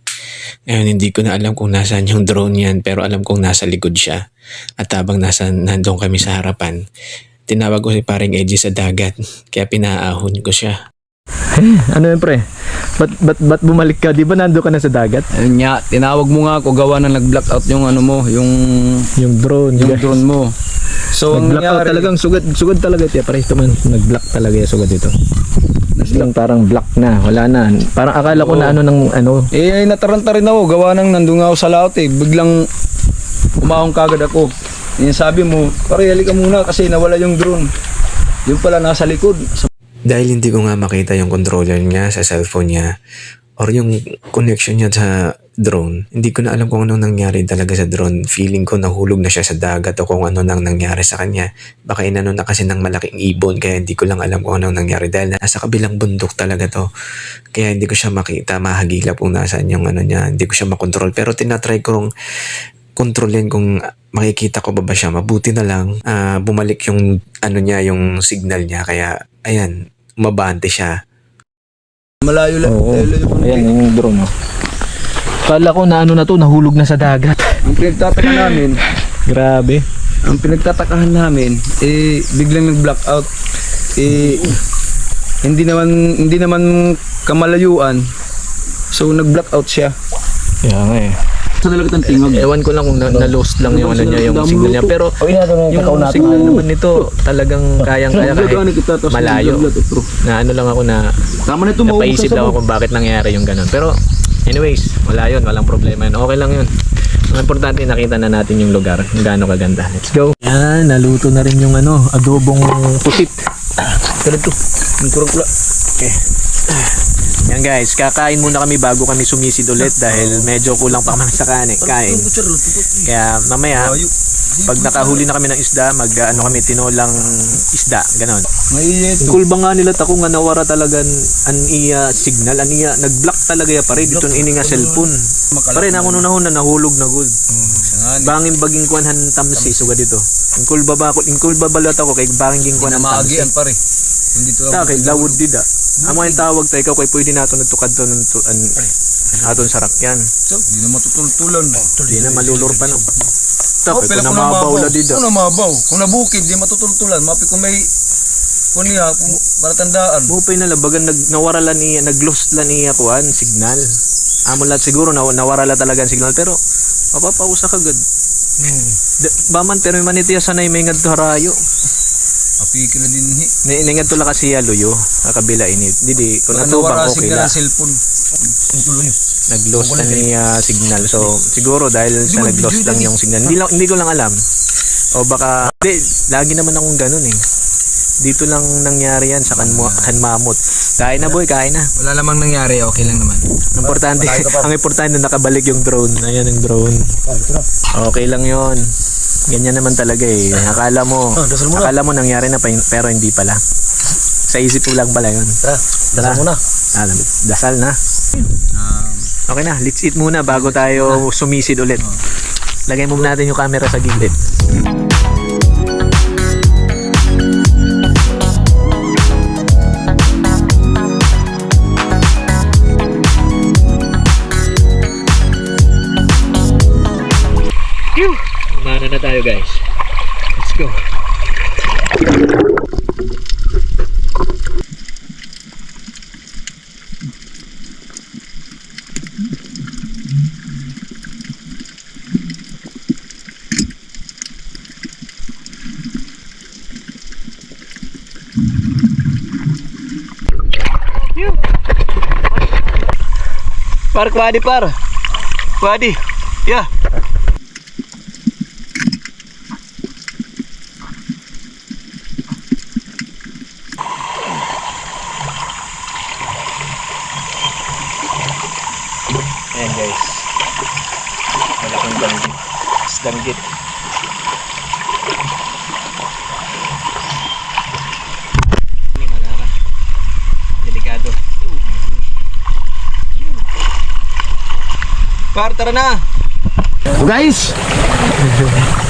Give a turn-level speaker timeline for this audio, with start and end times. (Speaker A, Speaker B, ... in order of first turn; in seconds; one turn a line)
Speaker A: 0.7-4.2
Speaker A: 4.8-6.8
Speaker A: 7.5-10.8
Speaker B: 11.5-12.4
Speaker B: 13.0-15.3
Speaker C: 15.4-19.1
Speaker B: 19.2-20.2
Speaker C: 19.8-20.5
Speaker C: 21.1-22.1
Speaker B: 21.3-25.1
Speaker C: 26.0-26.3
Speaker B: 26.0-29.5
Speaker C: 28.3-28.8
Speaker C: 29.6-32.7
Speaker C: 33.6-37.7
Speaker C: 38.5-39.7
Speaker A: 40.1-42.9
Speaker A: 43.6-56.9
Speaker A: 57.5-62.1
Speaker A: 63.0-70.9
Speaker C: 72.2-73.7
Speaker B: 72.7-74.3
Speaker B: 75.5-77.6
Speaker C: 77.7-78.8
Speaker B: 78.2-78.5
Speaker B: 79.3-79.8
Speaker C: 80.3-83.3
Speaker C: 84.0-84.6
Speaker C: 85.4-88.0
Speaker C: 88.9-90.0
Speaker B: 90.6-91.2
Speaker C: 91.6-92.5
Speaker B: 92.0-95.2
Speaker C: 93.6-95.0
Speaker D: 95.2-96.7
Speaker B: 95.7-99.7
Speaker C: 96.0-96.7
Speaker C: 98.0-100.1
Speaker B: 100.2-101.0
Speaker C: 101.5-102.6
Speaker B: 101.8-103.9
Speaker B: 104.5-106.7
Speaker B: 107.3-113.4
Speaker C: 113.8-115.5
Speaker B: 116.0-117.0
Speaker B: 117.5-122.3
Speaker C: 120.0-120.5
Speaker C: 121.8-123.1
Speaker B: 123.1-124.0
Speaker C: 123.7-125.3
Speaker B: 124.7-128.5
Speaker C: 128.7-129.4
Speaker B: 129.2-135.2
Speaker C: 134.0-136.3
Speaker B: 135.7-143.5
Speaker C: 137.8-138.3
Speaker C: 139.5-139.9
Speaker C: 142.8-143.8
Speaker C: 144.3-145.4
Speaker B: 144.7-148.8
Speaker C: 146.0-146.4
Speaker C: 149.3-149.6
Speaker B: 149.4-150.3
Speaker C: 150.5-153.0
Speaker B: 152.0-153.1
Speaker B: 153.9-155.2
Speaker C: 153.9-157.9
Speaker C: 158.7-160.3
Speaker B: 160.3-163.9
Speaker B: 164.5-166.6
Speaker B: 167.2-168.0
Speaker B: 168.6-171.6
Speaker C: 172.6-173.5
Speaker B: 173.7-177.5
Speaker C: 176.5-179.2
Speaker B: 179.5-184.4
Speaker C: 179.8-180.3
Speaker C: 182.3-183.5
Speaker B: 185.2-187.4
Speaker B: 188.2-191.9
Speaker C: 189.5-190.2
Speaker C: 192.0-193.5
Speaker B: 193.8-197.2
Speaker D: 193.9-194.7
Speaker D: 197.3-197.7
Speaker B: 197.9-198.8
Speaker B: 199.5-203.6
Speaker D: 201.4-201.9
Speaker B: 204.5-205.6
Speaker D: 205.6-206.6
Speaker B: 206.2-208.0
Speaker C: 208.7-209.2
Speaker B: 209.5-212.1
Speaker C: 210.5-211.2
Speaker B: 212.9-214.4
Speaker B: 228.2-229.8
Speaker B: 230.6-231.0
Speaker B: 254.1-255.0
Speaker B: 255.8-256.9
Speaker B: 269.7-270.5
Speaker B: 271.8-273.6
Speaker B: 279.1-279.7
Speaker B: 280.8-281.4
Speaker C: 285.5-286.2
Speaker D: 287.1-287.8
Speaker B: 288.4-288.9